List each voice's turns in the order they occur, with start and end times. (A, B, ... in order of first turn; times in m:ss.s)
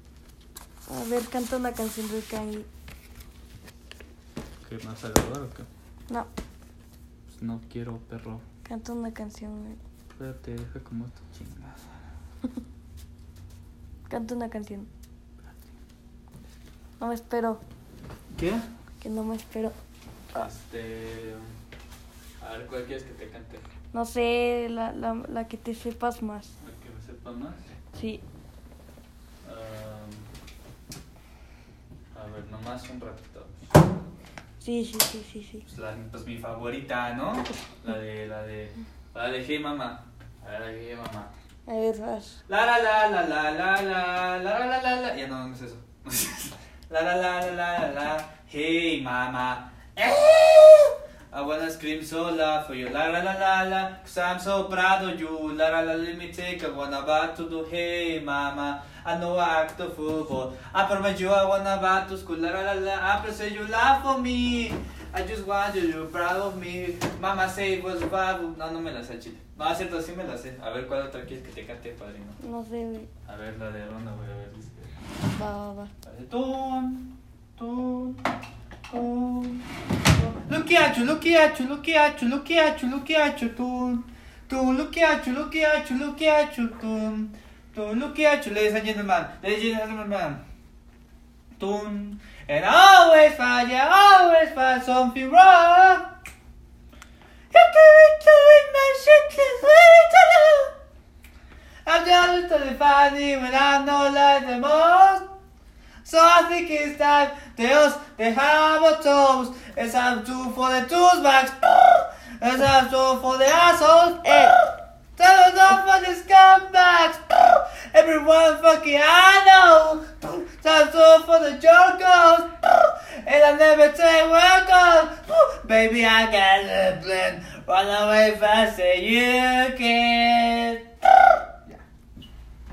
0:00.9-0:02.7 A
0:04.6-0:05.7 B
0:07.3-0:08.4 B
0:08.6-0:09.8 A
0:10.1-0:11.8 B
0:14.1-0:14.9 A
0:17.0-0:17.6 A
0:18.3-0:18.6 B
0:19.0-0:19.7 A
0:20.3-0:21.5 B
0:22.4-0:23.6 B
0:23.9-0:26.5 A
0:26.6-0:27.6 B
0:28.0-0:28.2 A
0:29.4-0:30.3 B
0:32.1-0:33.7 B
0:34.6-0:35.6 A
0:35.6-0:41.3 B
0:41.7-0:42.3 A
0:42.5-1:12.4 B
1:12.4-1:13.1 A
1:13.2-1:14.9 B
1:15.3-1:15.9 A
1:16.0-1:18.2 B
1:18.9-1:30.4 B
1:31.6-1:36.0 B
1:37.5-1:40.7 B
1:41.8-1:45.2 B
1:46.0-1:54.6 B
1:55.2-2:10.8 B